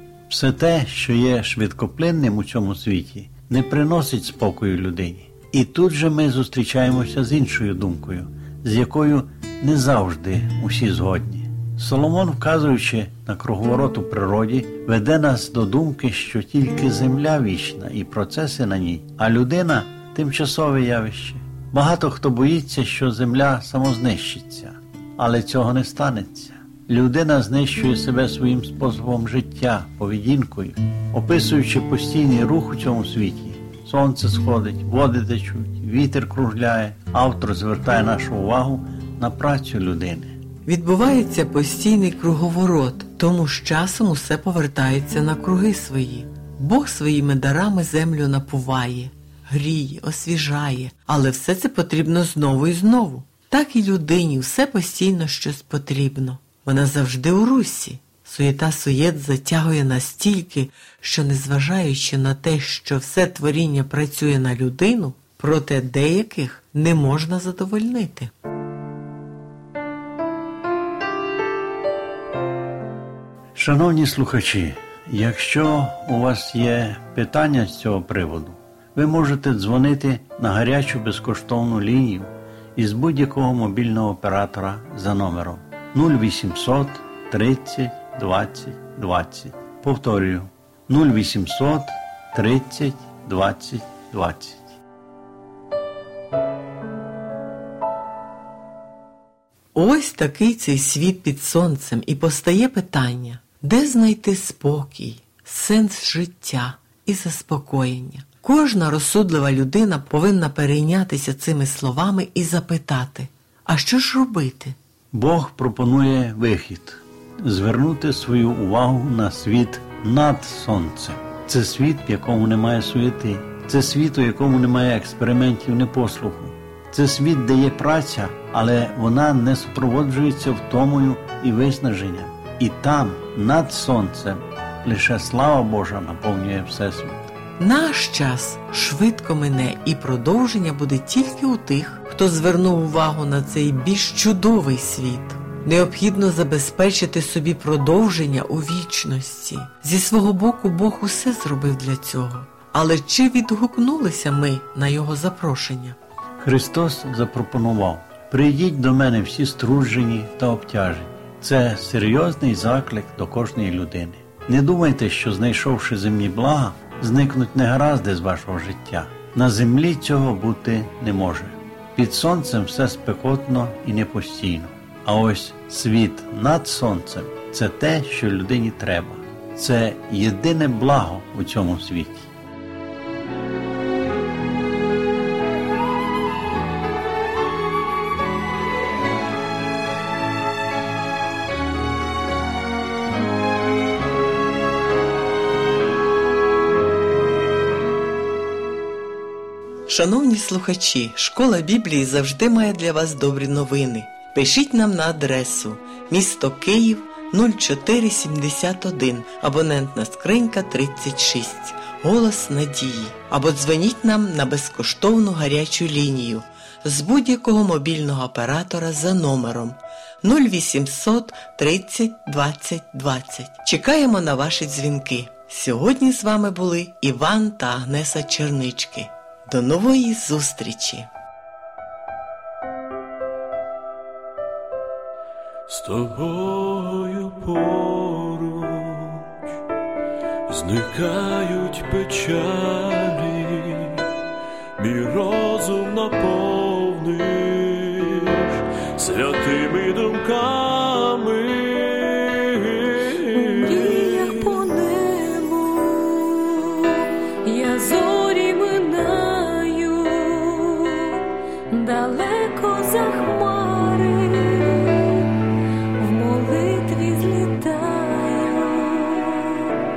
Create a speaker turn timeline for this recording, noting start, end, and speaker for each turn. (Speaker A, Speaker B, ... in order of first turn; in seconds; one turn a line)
Speaker A: 0.3-40.4
Speaker B: 40.6-68.3
Speaker A: 73.6-94.7
Speaker B: 99.8-114.8
Speaker A: 115.1-137.3
Speaker B: 137.6-156.0
Speaker A: 156.4-182.3
Speaker B: 199.9-231.1
Speaker C: 235.7-239.4
Speaker C: 240.5-244.1
Speaker C: 244.8-254.8
Speaker B: 253.5-265.3
Speaker B: 266.0-269.8